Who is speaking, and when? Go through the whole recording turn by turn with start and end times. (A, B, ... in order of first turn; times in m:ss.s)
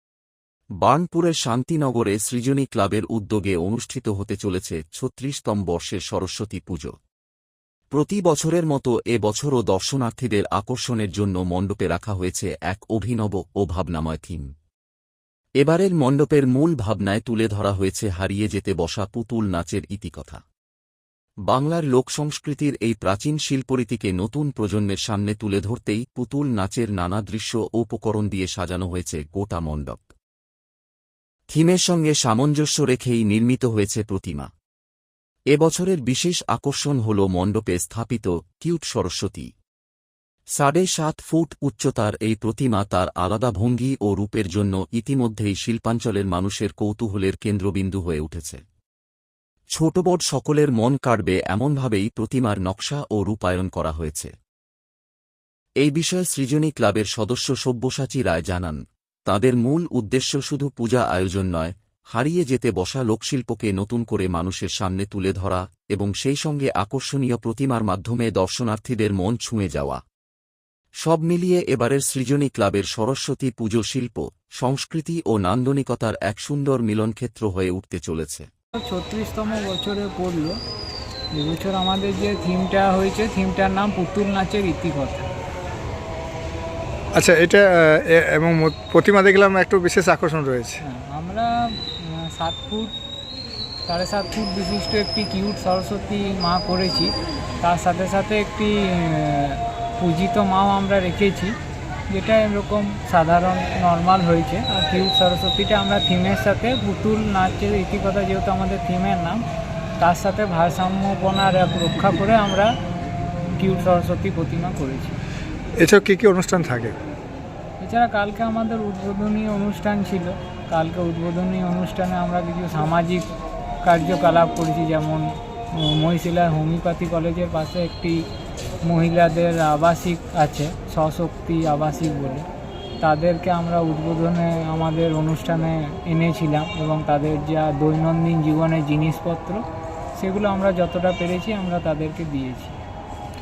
0:00.8-0:06.9 A
0:07.9-0:14.5 A
0:15.6-0:20.4 A
0:21.5-0:30.1 A
0:31.5-0:34.5 A
0:35.5-0:39.5 A
0:40.6-0:48.6 A
0:49.8-0:54.3 A
0:55.8-1:10.0 A
1:11.0-1:18.5 A
1:18.7-1:20.6 B
1:21.3-1:25.3 B
1:27.1-1:30.8 C
1:30.8-1:32.9 B
1:33.8-1:41.6 B
1:42.1-1:49.4 B
1:50.0-1:52.7 B
1:53.6-1:55.2 B
1:55.8-1:57.0 C
1:57.8-2:03.2 B
2:03.8-2:08.2 B
2:08.8-2:12.5 B
2:13.0-2:19.6 B
2:20.2-2:22.8 B